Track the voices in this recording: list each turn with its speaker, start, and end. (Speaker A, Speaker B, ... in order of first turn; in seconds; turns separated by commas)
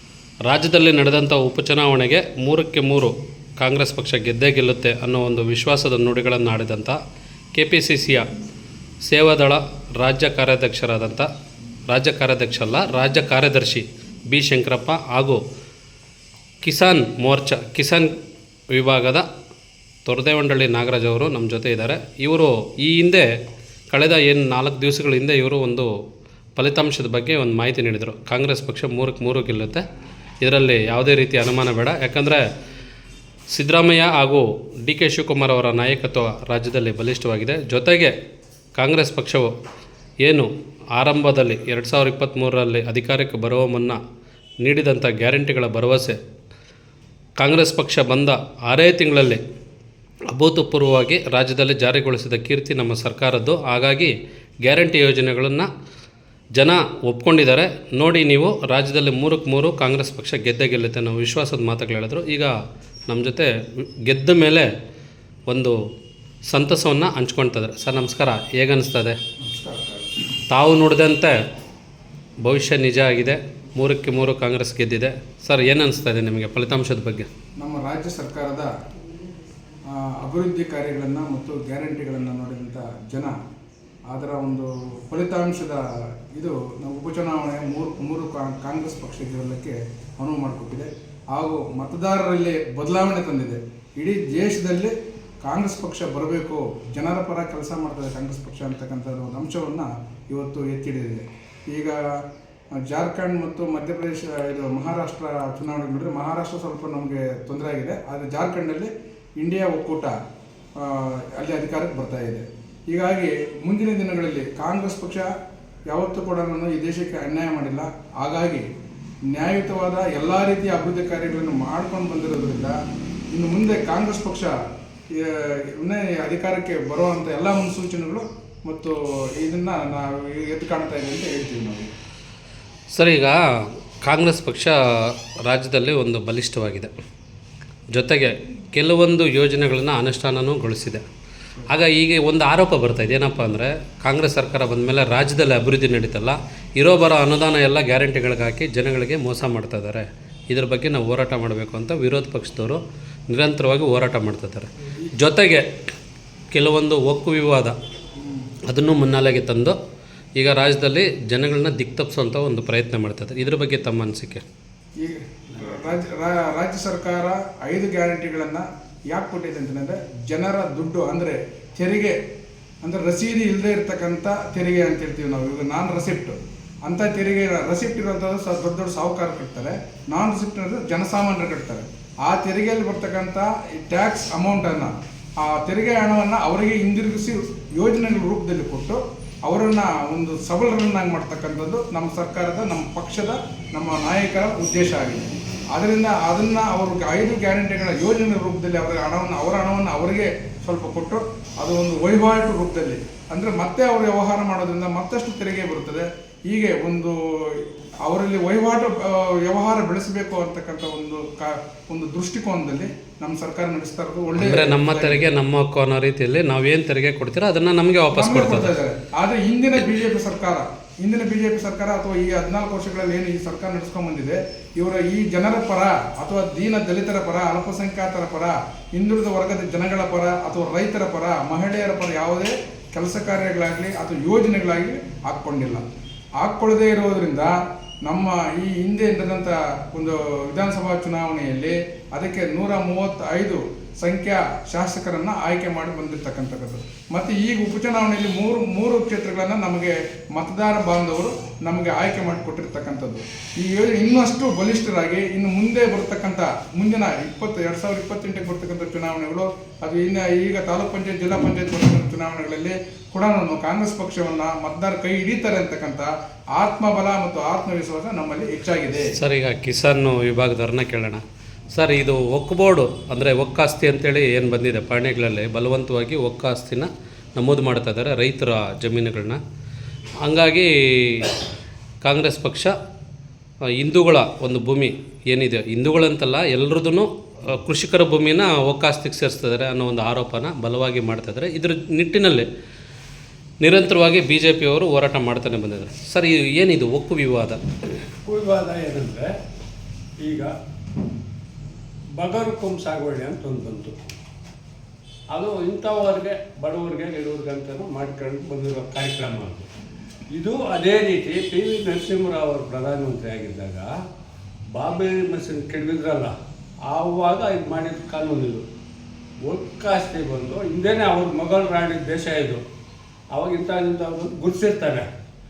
Speaker A: 0.5-7.0, Speaker A: 7.6-8.3, Speaker A: 9.1-11.3, Speaker A: 11.9-15.4, Speaker A: 16.6-18.1, Speaker A: 18.7-19.3, Speaker A: 20.1-23.3, Speaker A: 23.9-25.9, Speaker A: 26.6-29.8, Speaker A: 30.4-32.4, Speaker A: 33.5-38.1, Speaker A: 38.8-39.5, Speaker A: 40.2-44.0, Speaker A: 44.6-46.2, Speaker A: 47.4-49.4, Speaker A: 50.3-54.1, Speaker A: 54.6-55.7, Speaker A: 56.6-62.5, Speaker A: 63.1-63.5, Speaker A: 64.0-64.7, Speaker A: 65.5-65.8, Speaker A: 66.5-69.2, Speaker B: 69.4-70.2, Speaker A: 70.5-71.3, Speaker A: 72.4-77.3, Speaker B: 77.6-78.7, Speaker B: 79.9-83.3, Speaker B: 84.1-85.8, Speaker B: 86.3-94.9, Speaker B: 95.5-102.2, Speaker B: 102.8-110.2, Speaker B: 110.8-115.3, Speaker B: 115.9-118.7, Speaker B: 119.3-122.8, Speaker B: 123.3-124.6, Speaker B: 125.1-131.9, Speaker A: 132.9-133.4, Speaker A: 134.0-136.9, Speaker A: 137.9-141.0, Speaker A: 141.7-155.7, Speaker A: 156.5-157.8, Speaker B: 158.2-158.5, Speaker A: 158.7-159.8, Speaker A: 160.4-164.4, Speaker B: 165.0-172.2, Speaker B: 172.8-215.3, Speaker A: 214.4-218.7, Speaker B: 218.1-235.9, Speaker B: 236.4-269.2, Speaker A: 269.1-271.2, Speaker A: 271.8-279.4, Speaker A: 280.2-281.4, Speaker A: 282.0-282.7, Speaker A: 283.8-292.5, Speaker A: 293.6-297.6, Speaker C: 298.2-299.3, Speaker C: 300.2-300.5, Speaker C: 302.2-304.0, Speaker C: 305.3-309.7, Speaker C: 310.3-313.9, Speaker C: 314.7-316.4, Speaker C: 316.9-318.7, Speaker C: 319.4-322.6, Speaker C: 323.3-325.1